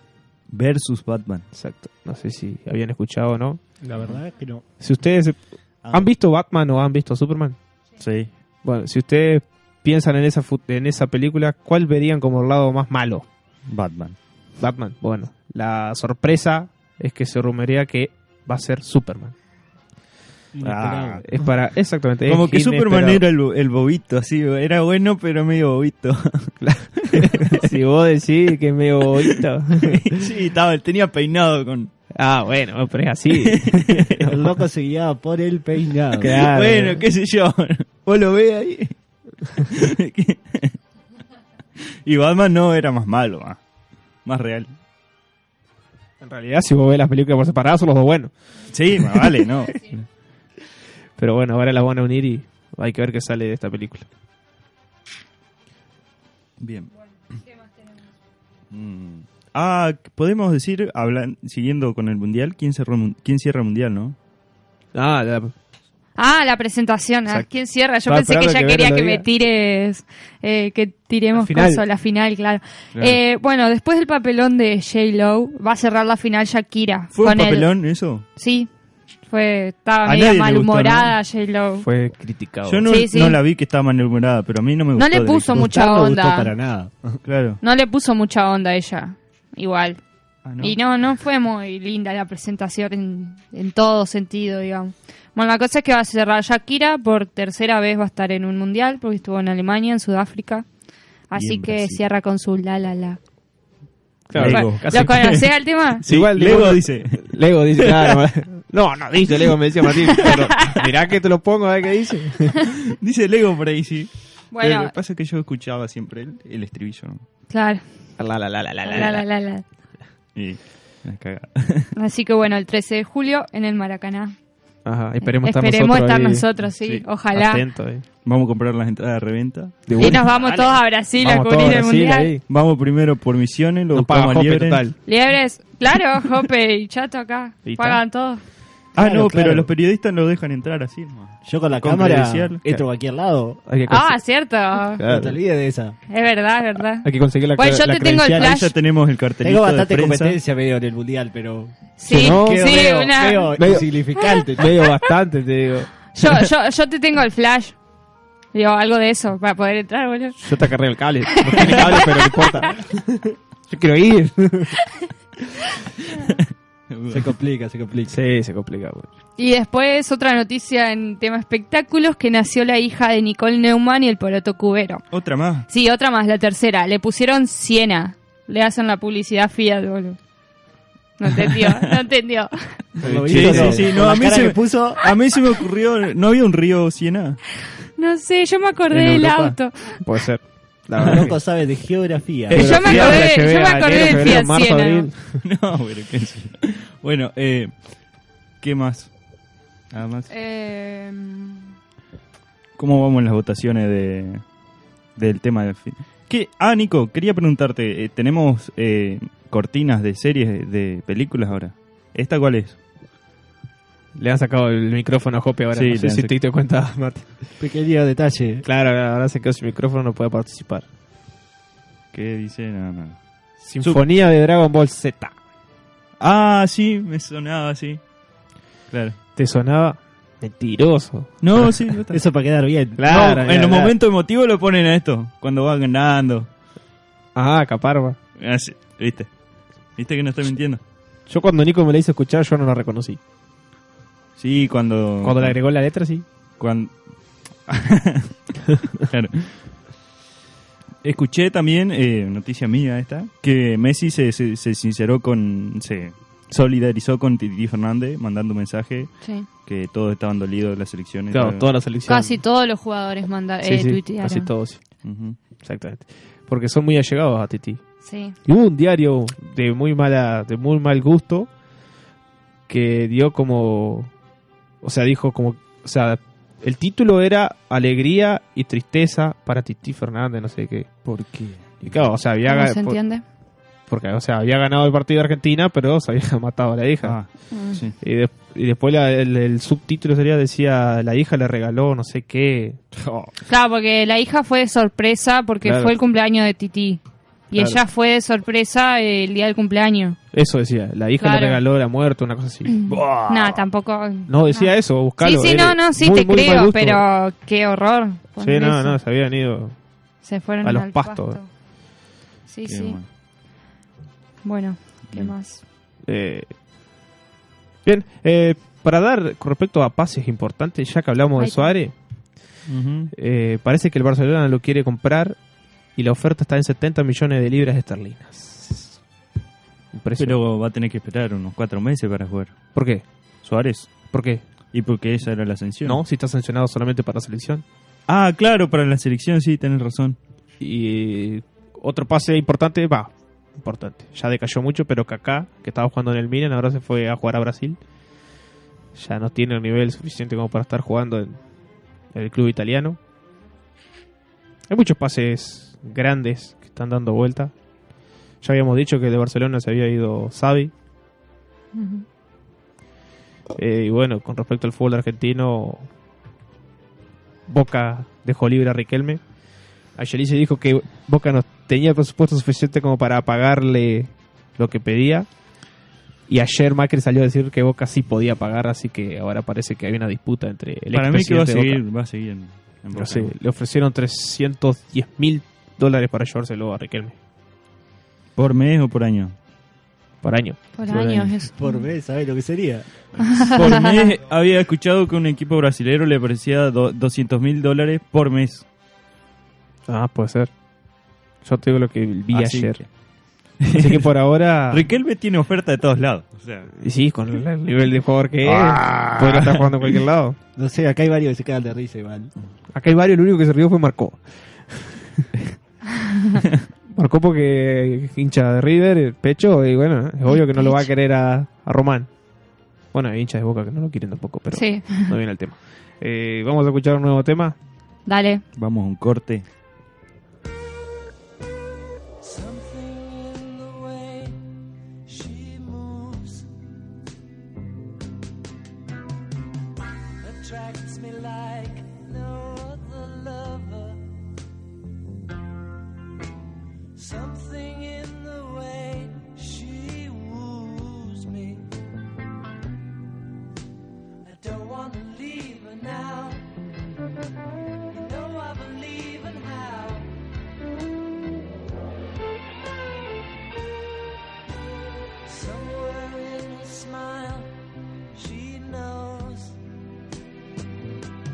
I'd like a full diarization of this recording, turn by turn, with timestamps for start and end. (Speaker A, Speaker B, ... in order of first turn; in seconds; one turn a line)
Speaker A: 0.5-1.4
Speaker B: 1.5-3.6
Speaker C: 3.8-4.7
Speaker B: 4.8-7.6
Speaker A: 8.0-8.3
Speaker B: 8.6-13.3
Speaker A: 13.7-14.2
Speaker B: 14.6-19.4
Speaker C: 20.5-21.2
Speaker A: 20.6-21.2
Speaker B: 21.3-23.2
Speaker A: 22.3-27.6
Speaker B: 26.6-30.2
Speaker A: 29.8-31.9
Speaker B: 32.1-34.3
Speaker A: 33.4-34.3
Speaker C: 34.2-36.5
Speaker B: 36.2-37.0
Speaker A: 36.3-39.0
Speaker A: 39.5-40.8
Speaker A: 42.0-43.6
Speaker A: 44.2-44.7
Speaker B: 46.2-48.3
Speaker A: 48.7-50.1
Speaker B: 49.0-49.5
Speaker B: 51.2-54.1
Speaker A: 56.6-56.9
Speaker A: 58.7-64.2
Speaker B: 64.9-65.5
Speaker D: 66.2-78.7
Speaker B: 68.1-69.3
Speaker B: 71.3-71.8
Speaker A: 73.0-73.2
Speaker A: 77.1-78.2
Speaker D: 79.3-81.9
Speaker A: 80.0-81.2
Speaker B: 81.8-82.9
Speaker A: 82.7-85.6
Speaker D: 82.9-83.4
Speaker D: 85.0-86.5
Speaker C: 85.5-87.2
Speaker A: 87.2-87.6
Speaker D: 87.6-90.0
Speaker A: 90.5-90.8
Speaker D: 90.6-100.7
Speaker D: 101.3-103.2
Speaker A: 101.3-102.0
Speaker B: 104.3-105.4
Speaker A: 104.3-108.2
Speaker D: 104.4-106.0
Speaker B: 106.1-112.7
Speaker A: 112.9-117.2
Speaker D: 114.5-114.9
Speaker D: 117.5-117.8
Speaker B: 118.2-119.3
Speaker D: 118.8-119.6
Speaker A: 120.3-121.9
Speaker D: 122.0-124.4
Speaker B: 124.8-126.5
Speaker D: 125.2-127.6
Speaker A: 126.8-127.1
Speaker B: 127.3-128.1
Speaker A: 128.2-130.6
Speaker B: 129.9-130.2
Speaker D: 130.0-132.3
Speaker B: 131.2-132.4
Speaker A: 132.5-134.8
Speaker B: 133.9-135.0
Speaker D: 135.1-138.4
Speaker B: 137.7-138.0
Speaker A: 138.9-142.6
Speaker C: 139.0-139.7
Speaker C: 141.4-143.6
Speaker B: 143.7-144.2
Speaker D: 143.9-145.0
Speaker B: 145.0-145.4
Speaker C: 145.0-146.0
Speaker D: 146.1-148.7
Speaker B: 147.0-148.5
Speaker A: 148.4-150.4
Speaker C: 149.4-154.8
Speaker D: 152.0-153.6
Speaker B: 152.1-153.9
Speaker B: 154.6-155.9
Speaker D: 156.1-157.8
Speaker D: 158.5-160.4
Speaker B: 160.4-163.0
Speaker D: 161.4-162.5
Speaker B: 163.7-164.8
Speaker A: 166.3-167.3
Speaker C: 167.1-168.2
Speaker B: 168.1-169.1
Speaker D: 169.4-175.1
Speaker A: 175.1-175.7
Speaker D: 175.7-180.2
Speaker D: 181.2-182.8
Speaker C: 183.0-185.1
Speaker B: 183.0-183.9
Speaker A: 183.3-187.4
Speaker D: 188.0-190.0
Speaker A: 188.9-189.6
Speaker B: 190.0-191.4
Speaker C: 191.0-193.1
Speaker B: 192.5-195.4
Speaker D: 192.5-195.1
Speaker A: 192.8-193.3
Speaker A: 195.4-198.1
Speaker A: 198.6-199.1
Speaker A: 199.9-200.3
Speaker D: 200.3-201.7
Speaker A: 202.8-204.5
Speaker A: 205.2-212.8
Speaker B: 214.2-217.4
Speaker A: 215.7-216.3
Speaker C: 217.6-218.7
Speaker B: 218.7-220.9
Speaker A: 222.1-223.2
Speaker B: 223.6-225.4
Speaker A: 226.2-228.0
Speaker A: 228.9-229.2
Speaker B: 229.4-231.8
Speaker A: 231.4-232.2
Speaker C: 232.1-233.1
Speaker B: 233.0-233.9
Speaker A: 233.1-236.5
Speaker B: 237.3-238.2
Speaker A: 238.4-239.3
Speaker A: 239.9-240.8
Speaker B: 241.3-243.2
Speaker A: 244.4-245.6
Speaker B: 245.2-246.2
Speaker A: 246.6-248.3
Speaker A: 249.0-249.8
Speaker A: 251.0-261.7
Speaker D: 259.2-259.5
Speaker B: 261.3-262.4
Speaker D: 262.1-264.5
Speaker B: 263.6-264.9
Speaker A: 265.0-265.4
Speaker B: 265.6-267.8
Speaker D: 268.0-268.4
Speaker B: 268.4-271.5
Speaker B: 272.7-274.1
Speaker B: 274.8-281.0
Speaker A: 281.1-281.9
Speaker B: 281.8-283.0
Speaker D: 282.4-283.2
Speaker B: 283.9-287.2
Speaker A: 287.0-287.9
Speaker D: 287.5-287.8
Speaker B: 288.0-292.8
Speaker A: 293.0-293.3
Speaker D: 293.5-300.2
Speaker B: 295.6-295.9
Speaker B: 300.3-302.9
Speaker D: 301.2-301.6
Speaker A: 302.9-303.6
Speaker D: 303.1-309.0
Speaker B: 304.3-307.1
Speaker B: 308.4-309.8
Speaker D: 310.2-311.5
Speaker B: 310.6-311.4
Speaker D: 312.5-313.0
Speaker A: 312.7-313.1
Speaker D: 314.4-315.6
Speaker B: 316.0-316.5
Speaker B: 317.9-321.9
Speaker D: 321.4-321.7
Speaker A: 322.7-323.1
Speaker B: 323.1-325.4
Speaker B: 326.0-329.0
Speaker B: 329.9-330.4
Speaker A: 330.2-332.6
Speaker B: 332.8-333.1
Speaker A: 333.4-334.0
Speaker B: 334.1-334.4
Speaker A: 334.7-336.0
Speaker B: 335.9-337.6
Speaker A: 338.1-340.2
Speaker B: 340.6-347.8
Speaker B: 348.9-351.4
Speaker B: 352.1-353.0
Speaker B: 354.7-357.5
Speaker B: 358.4-360.7
Speaker D: 361.7-362.1
Speaker B: 363.6-365.9
Speaker B: 367.5-369.2
Speaker B: 369.9-375.3
Speaker B: 376.3-381.8
Speaker A: 380.9-383.3
Speaker B: 382.9-387.2
Speaker A: 388.4-389.4
Speaker B: 390.2-391.3
Speaker D: 390.8-391.8
Speaker C: 391.5-393.6
Speaker D: 393.3-393.9
Speaker A: 393.4-398.6
Speaker B: 399.9-400.5
Speaker B: 401.4-402.8
Speaker A: 402.3-402.9
Speaker A: 403.6-404.1
Speaker B: 403.6-404.9
Speaker A: 404.7-406.7
Speaker B: 406.8-410.4
Speaker A: 408.4-410.0
Speaker C: 410.6-412.3
Speaker B: 412.7-415.6
Speaker B: 416.9-422.1
Speaker D: 420.3-420.9
Speaker B: 422.9-427.6
Speaker D: 424.5-425.1
Speaker D: 428.1-428.4
Speaker A: 428.6-429.4
Speaker E: 448.5-449.1
Speaker E: 454.5-456.2
Speaker E: 458.3-459.9
Speaker E: 465.3-467.5
Speaker E: 468.2-469.4